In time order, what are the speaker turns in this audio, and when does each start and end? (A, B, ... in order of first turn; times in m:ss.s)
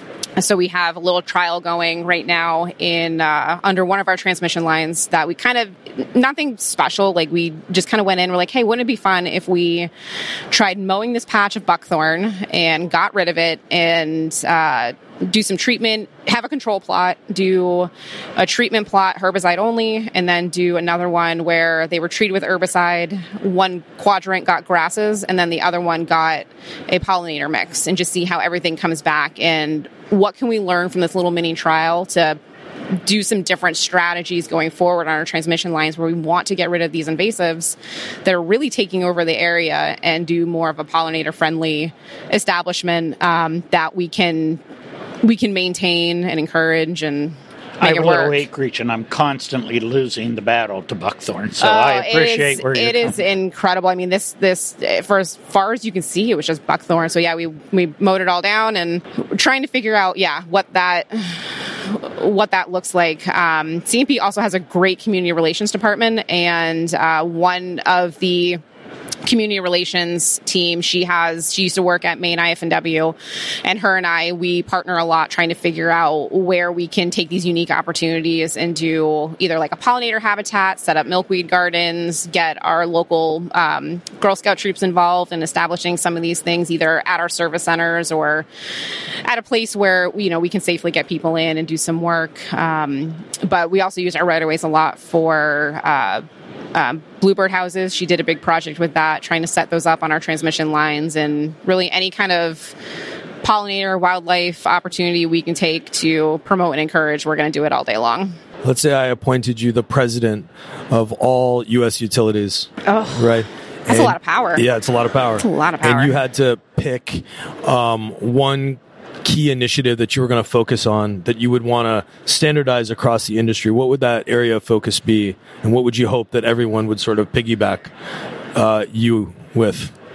0:00.4-0:09.9 A
0:10.5-0:32.4 A
0:32.9-0:44.6 A
0:45.2-0:48.4 A
0:47.8-0:53.2 B
0:51.6-1:08.6 A
1:09.2-1:28.4 A
1:29.2-1:42.8 A
1:43.4-1:48.4 A
1:48.6-2:07.9 C
1:52.8-1:54.6 A
1:55.4-1:56.2 A
2:08.5-2:09.9 C